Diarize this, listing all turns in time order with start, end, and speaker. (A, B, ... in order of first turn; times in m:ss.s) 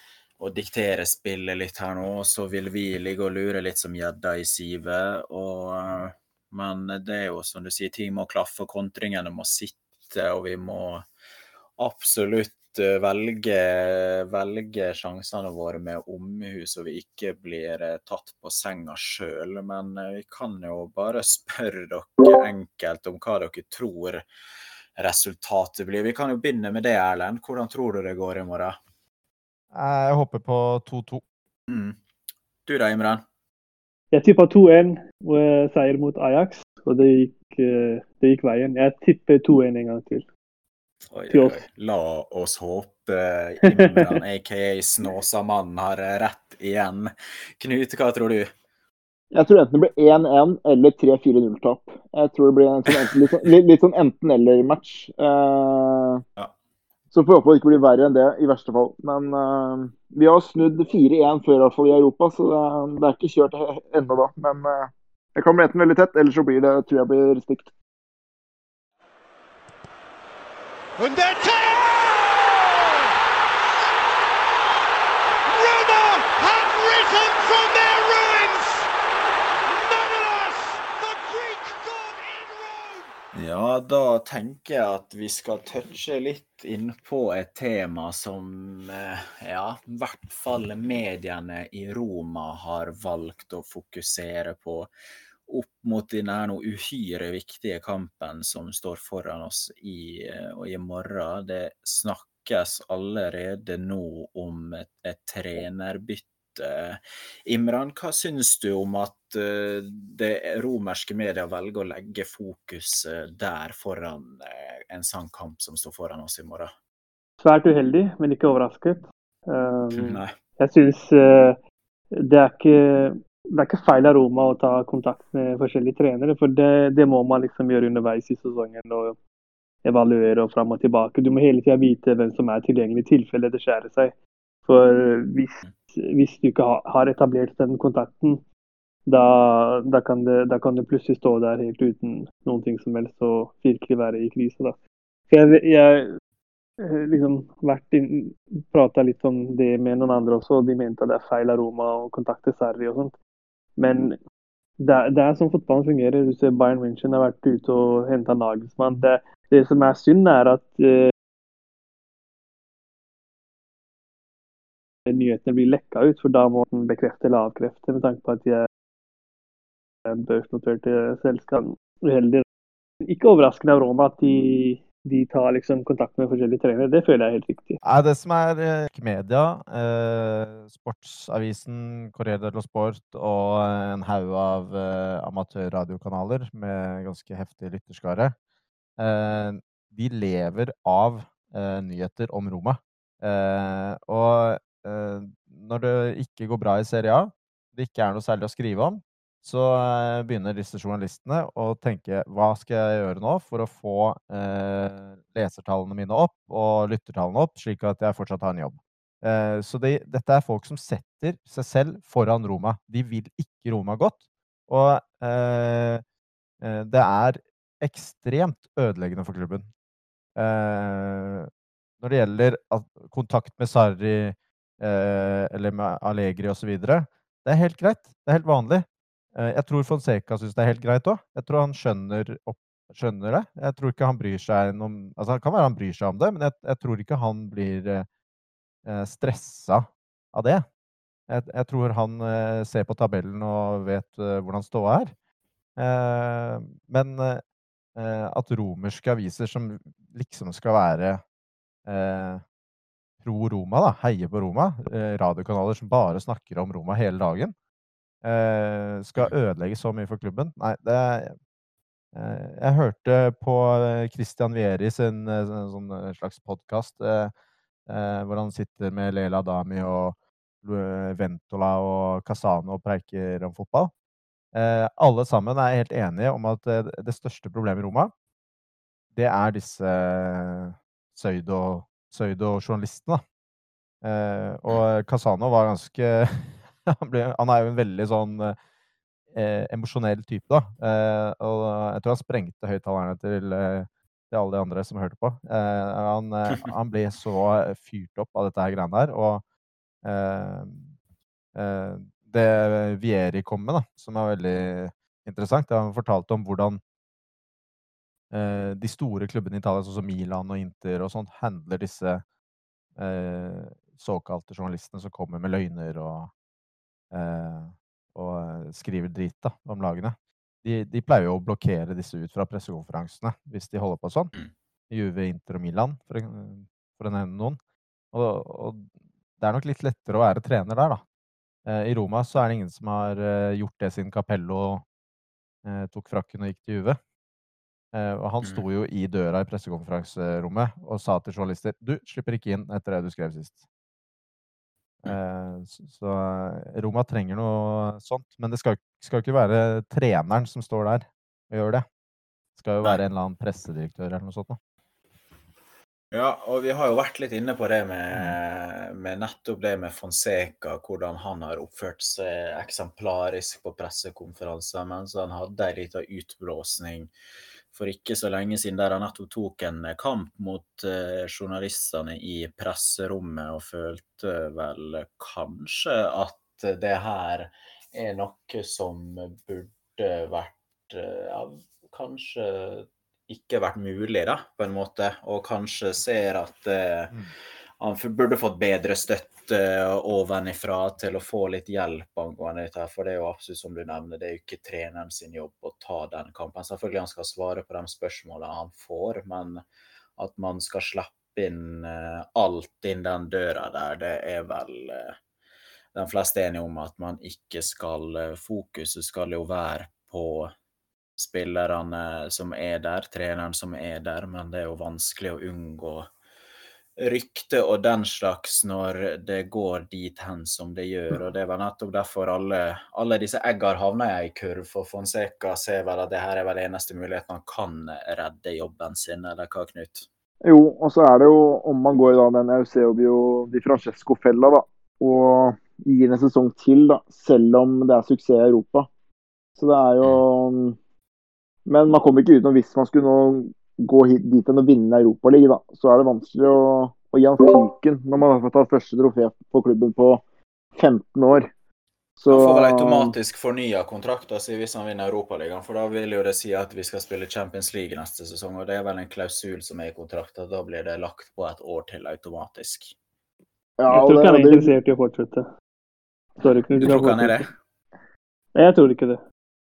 0:00.4-0:11.0 A
0:11.8-0:24.2 A
0:25.0-0:28.8 A
0:29.7-0:31.2 B
0:31.7-0:32.0 A
0:32.6-0:33.2 A
0:34.1-0:40.3 C
0:41.1-0:48.5 A
0:41.3-0:41.6 C
0:43.6-0:44.0 C
0:49.3-0:56.2 D
0:57.1-1:07.7 D
1:11.0-1:13.1 E
1:15.5-1:18.9 E
1:19.6-1:23.1 E
1:23.3-1:34.9 A
1:35.5-1:56.7 A
1:57.4-2:01.6 C
1:59.9-2:00.3 A
2:02.1-2:09.2 C
2:09.8-2:14.1 C
2:14.6-2:18.4 C
2:19.0-2:24.8 C
2:25.3-2:26.1 C
2:26.8-2:33.2 C
2:33.8-2:34.2 C
2:34.8-2:41.1 C
2:45.1-2:48.7 C
2:50.1-2:52.4 C
2:53.0-2:57.8 C
2:57.8-3:08.3 B
3:09.0-3:36.0 B
3:36.6-3:39.6 B
3:40.4-3:58.1 B
3:58.8-4:00.6 B
4:01.3-4:05.1 B
4:05.8-4:07.4 B
4:07.9-4:11.2 B
4:11.8-4:12.4 B
4:13.2-4:17.5 B
4:18.2-4:21.3 B
4:22.1-4:27.3 B
4:27.9-4:33.9 B
4:34.5-4:38.1 B
4:39.1-4:43.2 B
4:44.0-4:48.6 B
4:49.3-4:59.4 B
5:00.0-5:00.9 B
5:01.5-5:06.8 B
5:08.3-5:12.2 B
5:13.0-5:16.3 B
5:17.1-5:24.3 B
5:24.9-5:27.6 B
5:28.1-5:31.0 B
5:31.6-5:34.8 B
5:35.6-5:37.0 B
5:37.9-5:43.6 B
5:45.0-5:51.8 B
5:52.6-5:54.6 B
5:56.1-6:07.1 A
6:07.7-6:27.2 A
6:27.8-6:39.6 A
6:40.2-6:45.2 A
6:45.9-6:50.5 A
6:51.2-6:56.1 A
6:57.0-7:10.0 A
7:10.4-7:18.9 D
7:19.6-7:20.8 D
7:21.6-7:30.2 D
7:30.8-7:31.5 D
7:32.2-7:33.1 D
7:32.3-7:42.9 A
7:43.8-7:44.7 D
7:43.9-7:45.5 C
7:46.4-7:47.5 C
7:46.8-7:47.5 A
7:48.6-7:49.2 C